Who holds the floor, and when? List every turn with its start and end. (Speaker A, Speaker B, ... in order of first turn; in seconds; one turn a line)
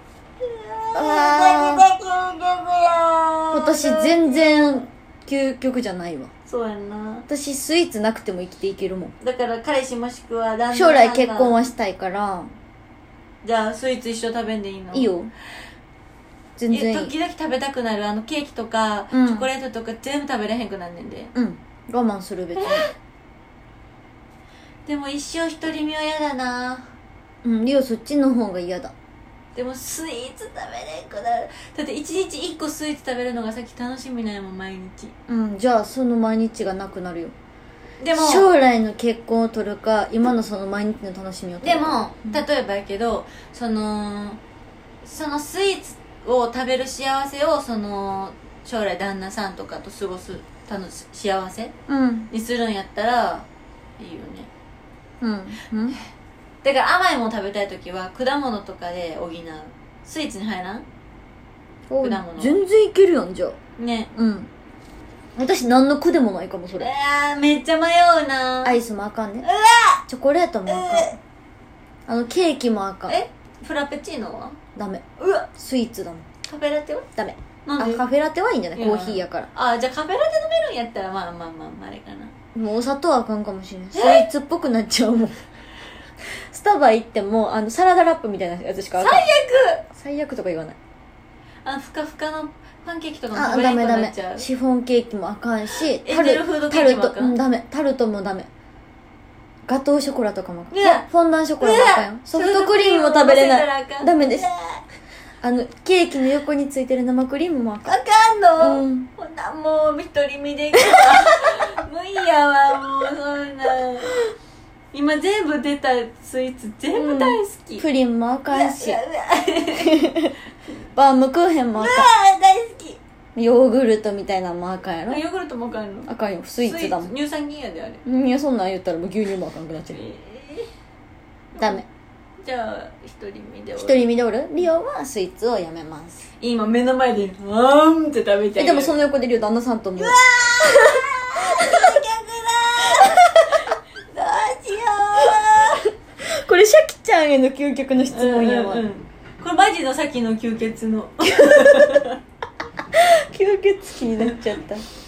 Speaker A: 0.4-4.9
Speaker B: 0.9-1.9
Speaker B: 3.5-6.3
Speaker A: 6.5-7.3
Speaker B: 7.3-9.2
Speaker A: 9.2-11.6
Speaker B: 10.7-12.6
Speaker A: 13.4-15.1
Speaker B: 14.9-15.3
Speaker B: 16.6-17.1
Speaker A: 16.7-21.3
Speaker B: 19.1-19.5
Speaker B: 21.4-22.9
Speaker A: 22.6-22.9
Speaker A: 24.9-26.9
Speaker B: 27.4-28.9
Speaker A: 29.5-35.1
Speaker B: 35.3-37.4
Speaker A: 38.0-38.5
Speaker B: 38.1-42.4
Speaker A: 41.6-44.4
Speaker A: 45.0-51.7
Speaker B: 51.9-52.3
Speaker A: 52.3-53.5
Speaker A: 54.0-54.5
Speaker B: 55.2-56.0
Speaker A: 56.6-60.9
Speaker B: 61.9-63.6
Speaker A: 62.0-62.6
Speaker A: 63.8-64.1
Speaker B: 64.1-64.5
Speaker B: 65.4-66.9
Speaker A: 66.8-68.8
Speaker B: 68.6-69.5
Speaker A: 69.4-70.0
Speaker B: 70.1-71.2
Speaker A: 70.7-71.2
Speaker B: 72.1-73.2
Speaker A: 73.1-74.6
Speaker B: 74.8-76.3
Speaker A: 75.2-75.5
Speaker A: 76.5-77.1
Speaker B: 77.2-79.5
Speaker A: 77.7-78.0
Speaker A: 78.7-82.3
Speaker B: 82.5-85.4
Speaker A: 83.9-84.3
Speaker B: 86.3-89.3
Speaker A: 89.0-89.8
Speaker B: 89.9-90.8
Speaker A: 91.6-94.5
Speaker B: 93.3-98.5
Speaker A: 96.0-97.4
Speaker B: 99.7-104.5
Speaker A: 100.7-101.1
Speaker A: 101.6-104.8
Speaker B: 105.4-108.0
Speaker A: 107.8-114.2
Speaker B: 108.6-109.1
Speaker A: 114.9-117.8
Speaker B: 116.9-119.0
Speaker A: 118.5-120.0
Speaker B: 119.8-120.4
Speaker B: 120.9-122.1
Speaker A: 121.8-123.0
Speaker B: 123.4-125.2
Speaker A: 125.1-128.0
Speaker B: 126.1-127.2
Speaker B: 128.1-130.1
Speaker A: 129.9-130.7
Speaker A: 131.6-131.8
Speaker B: 131.6-131.8
Speaker A: 132.4-134.1
Speaker B: 133.7-136.3
Speaker A: 136.4-139.0
Speaker B: 138.6-142.0
Speaker A: 140.0-145.9
Speaker B: 143.0-143.3
Speaker B: 146.2-148.9
Speaker A: 148.1-152.2
Speaker B: 151.3-152.1
Speaker B: 152.9-154.8
Speaker A: 154.2-154.4